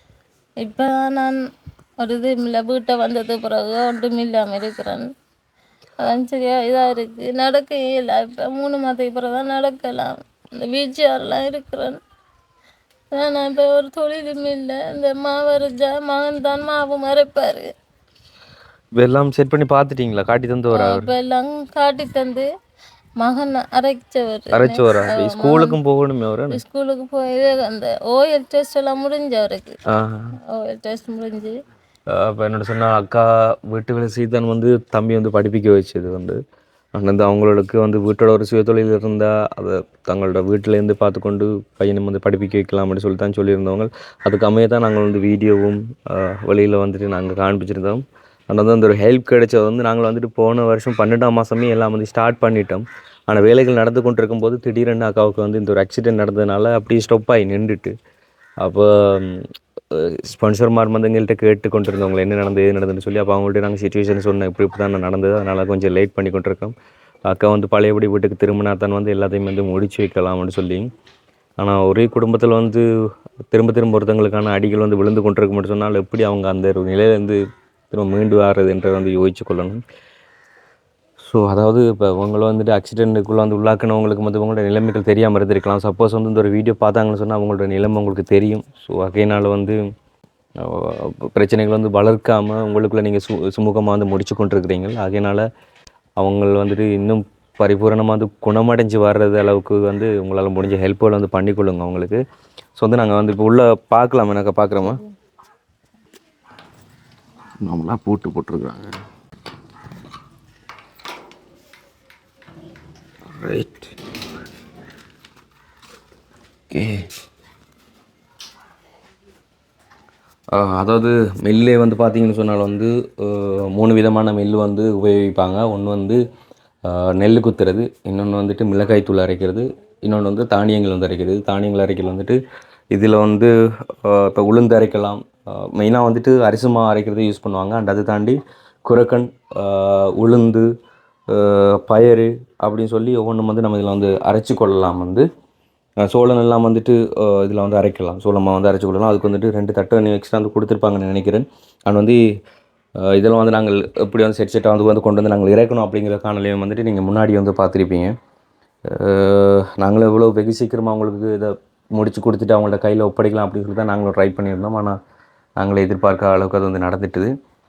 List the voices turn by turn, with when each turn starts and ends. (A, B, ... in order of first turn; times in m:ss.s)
0:00.6-0:01.4 A
0:02.0-0:05.1 A
0:06.0-0:12.0 A
0:13.1-0:17.7 A
0:19.0-0:21.1 B
0:20.7-0:22.5 A
0:23.2-0:25.8 A
0:24.5-0:26.6 B
0:26.5-0:29.8 A
0:29.9-0:30.3 B
0:30.5-0:31.5 A
0:32.1-0:36.4 B
0:36.9-0:57.9 B
0:58.6-1:06.7 B
1:07.3-1:10.9 B
1:11.6-1:12.8 B
1:13.5-1:17.4 B
1:17.9-1:19.8 B
1:21.2-1:29.8 B
1:30.6-1:35.4 B
1:36.2-1:42.2 B
1:42.8-1:45.0 B
1:47.6-1:49.0 B
1:53.2-1:53.9 B
1:56.7-1:57.1 B
2:00.5-2:06.2 B
2:06.8-2:12.4 B
2:12.9-2:20.7 B
2:21.3-2:25.2 B
2:26.0-2:32.2 B
2:33.0-2:38.1 B
2:38.8-2:45.0 B
2:45.6-2:47.3 B